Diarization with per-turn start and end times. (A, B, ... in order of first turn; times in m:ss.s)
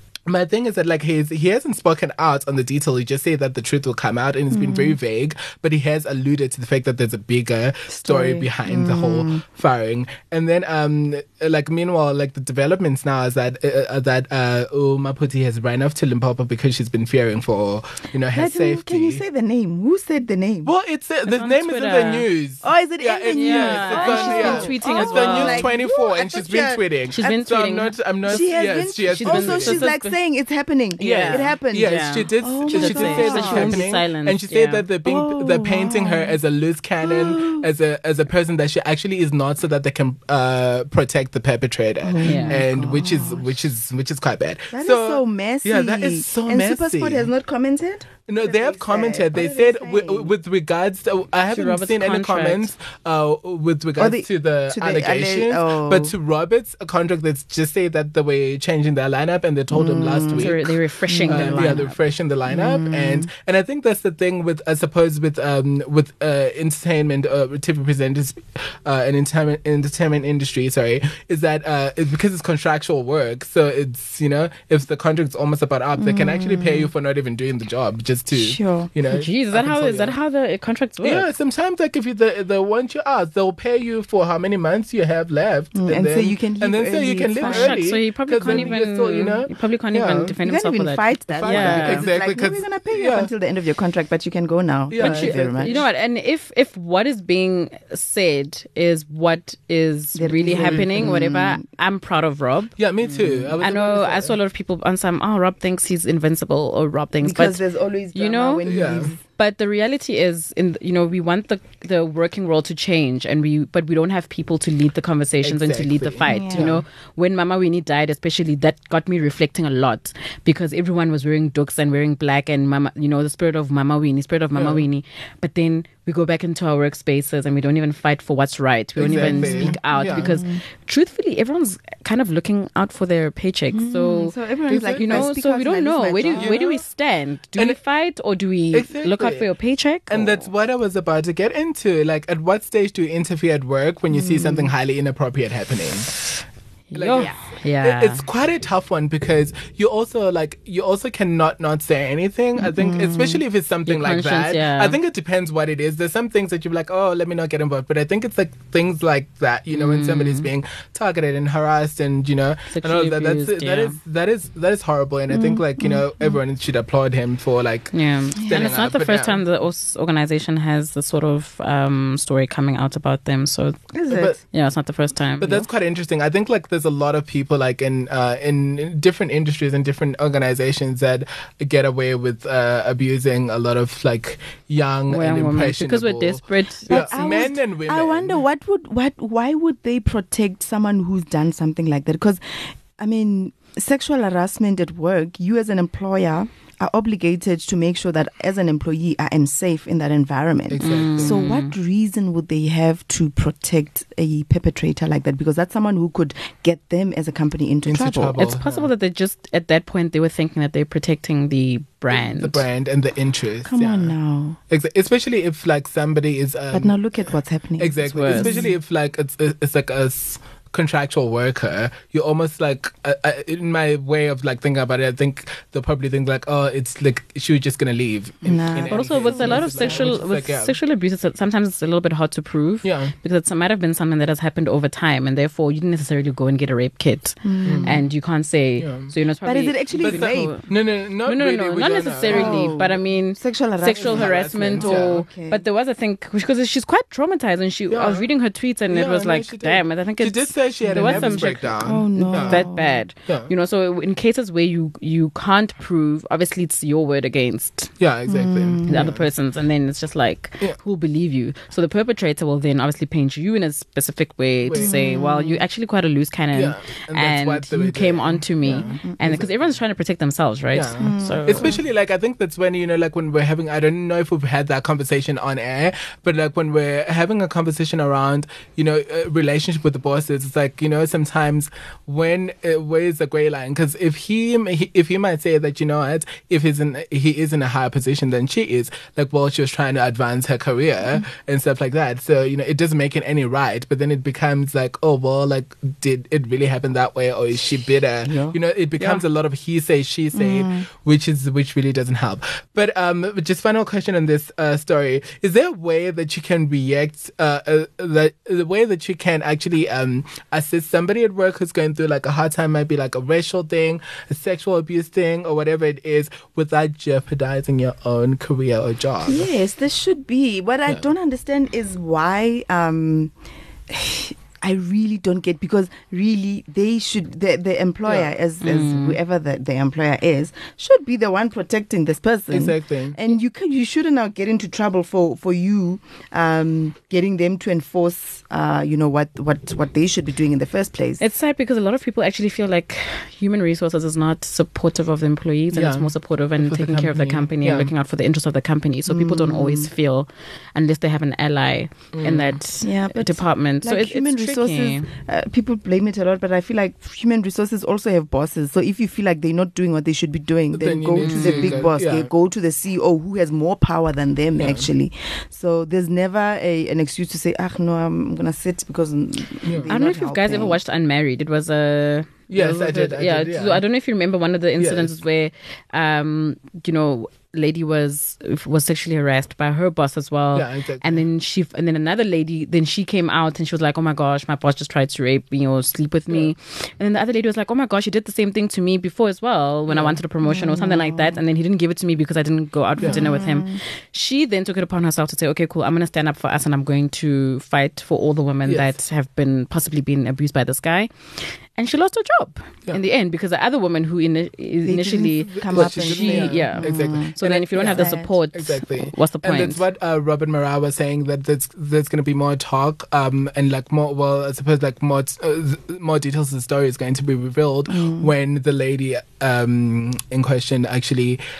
0:00.3-0:19.2 A
0:04.5-0:05.0 B
0:07.9-0:09.4 B
0:18.3-0:20.7 B
0:20.6-0:29.9 A
0:21.3-0:22.3 C
0:22.6-0:26.8 B
0:23.3-0:25.7 C
0:27.1-0:28.5 C
0:28.3-0:33.9 B
0:29.2-0:30.2 C
0:31.0-0:34.8 C
0:31.0-0:47.3 A
0:35.0-0:36.4 B
0:37.0-0:37.7 B
0:42.0-0:43.6 B
0:42.2-0:42.6 C
0:44.7-0:50.3 B
0:48.3-1:20.2 A
0:51.5-0:52.7 C
0:54.0-0:56.2 B
0:59.7-1:00.6 B
1:00.4-1:02.0 C
1:01.1-1:01.8 B
1:02.5-1:03.3 B
1:16.0-1:16.9 B
1:18.3-1:18.9 B
1:19.1-1:21.3 C
1:21.0-1:30.4 A
1:25.8-1:27.8 B
1:27.4-1:32.1 C
1:28.4-1:28.7 B
1:30.4-1:35.8 B
1:31.3-1:33.3 A
1:34.9-1:35.9 A
1:35.0-1:42.8 C
1:40.2-1:41.6 B
1:40.5-1:41.1 A
1:42.8-1:44.4 A
1:43.1-1:43.5 B
1:43.6-1:47.6 C
1:47.2-1:49.2 B
1:48.1-1:48.7 C
1:48.6-1:49.1 A
1:49.4-2:14.4 C
1:55.4-1:56.8 A
1:56.3-1:56.8 B
2:04.6-2:04.9 A
2:09.0-2:10.4 A
2:09.1-2:10.6 B
2:13.7-2:16.6 B
2:14.7-2:15.3 A
2:14.9-2:20.5 C
2:16.3-2:16.8 A
2:18.7-2:19.5 A
2:20.1-2:26.2 A
2:24.1-2:24.7 B
2:26.9-2:28.2 C
2:27.0-2:49.4 A
2:32.6-2:33.4 B
2:33.9-2:35.0 C
2:39.7-2:40.5 C
2:42.7-2:44.0 C
2:45.3-2:46.4 B
2:47.9-2:53.8 C
2:53.9-2:54.4 B
2:54.1-2:54.4 A
2:54.4-2:55.7 C
2:55.4-3:08.4 A
3:05.1-3:07.2 C
3:06.9-3:28.4 B
3:20.7-3:21.4 A
3:20.8-3:21.7 C
3:27.9-3:28.9 A
3:28.4-3:32.6 C
3:32.1-3:34.2 A
3:33.6-3:34.6 B
3:34.7-3:37.0 A
3:36.7-3:38.8 B
3:37.8-3:50.8 A
3:38.1-3:38.6 C
3:48.4-3:50.2 B
3:48.9-4:00.7 C
3:52.8-3:53.1 A
3:57.4-3:58.0 B
3:57.6-3:58.0 A
3:58.8-3:59.1 A
3:59.4-4:00.6 B
4:00.0-4:02.8 A
4:01.2-4:17.9 C
4:02.3-4:05.6 B
4:04.0-4:05.3 A
4:07.9-4:08.3 A
4:08.9-4:12.7 A
4:10.8-4:13.0 B
4:13.3-4:13.5 A
4:18.0-4:19.3 A
4:18.3-4:19.1 B
4:18.9-4:31.8 C
4:24.6-4:25.0 A
4:24.7-4:25.6 B
4:26.5-4:29.8 A
4:28.7-4:29.1 B
4:30.7-5:19.5 A
4:31.0-4:31.8 B
4:58.3-4:58.6 B
5:00.3-5:00.8 B
5:19.2-5:23.3 B
5:23.9-5:41.2 B
5:28.1-5:28.3 A
5:28.6-5:29.2 C
5:32.5-5:33.2 A
5:41.2-5:55.1 C
5:45.7-5:47.9 A
5:49.1-5:49.9 B
5:52.1-5:52.6 A
5:52.8-6:10.8 B
6:00.7-6:02.3 A
6:01.2-6:01.8 C
6:04.6-6:04.9 A
6:09.6-6:09.9 A
6:09.9-6:41.1 C
6:12.5-6:13.8 A
6:14.8-6:15.1 A
6:20.6-6:21.2 A
6:29.9-6:30.2 A
6:30.4-6:31.4 B
6:33.0-6:33.3 A
6:33.0-6:33.8 B
6:38.7-6:39.0 A
6:41.8-6:49.8 C
6:44.8-6:47.4 B
6:45.4-7:01.4 A
6:47.9-6:48.3 B
6:57.9-6:58.3 B